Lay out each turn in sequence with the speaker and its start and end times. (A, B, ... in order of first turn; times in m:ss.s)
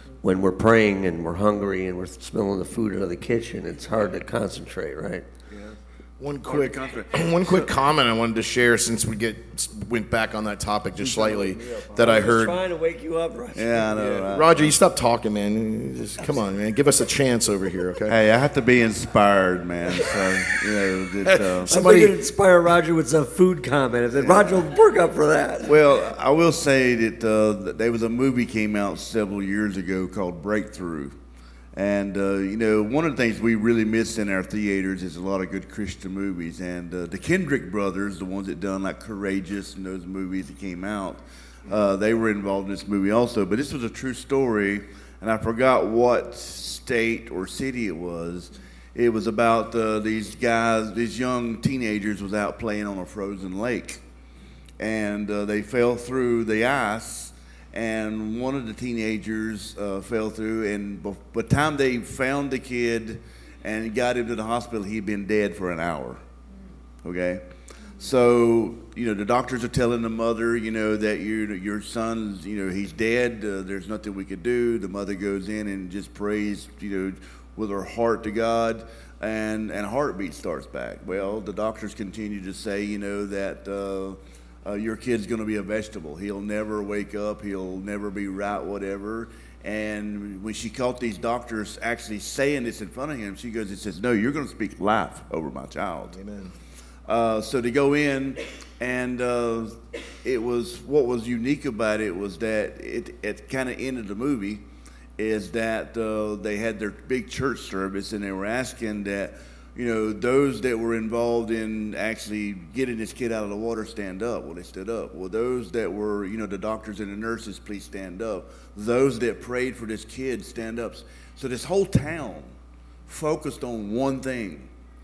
0:00.2-0:05.2 A
0:05.5-0:05.8 B
0:06.2-0:12.6 C
0:06.4-0:07.7 B
0:11.0-0:12.4 B
0:12.0-0:13.8 A
0:13.6-0:14.8 B
0:13.9-0:18.2 C
0:18.1-0:21.8 B
0:21.2-0:22.1 C
0:21.7-0:25.7 A
0:24.2-0:24.5 B
0:25.6-0:31.2 B
0:31.7-0:54.0 B
0:54.8-1:06.2 B
1:07.0-1:36.2 B
1:36.1-1:36.5 C
1:37.0-1:44.6 B
1:45.2-2:02.6 B
2:03.1-2:04.7 B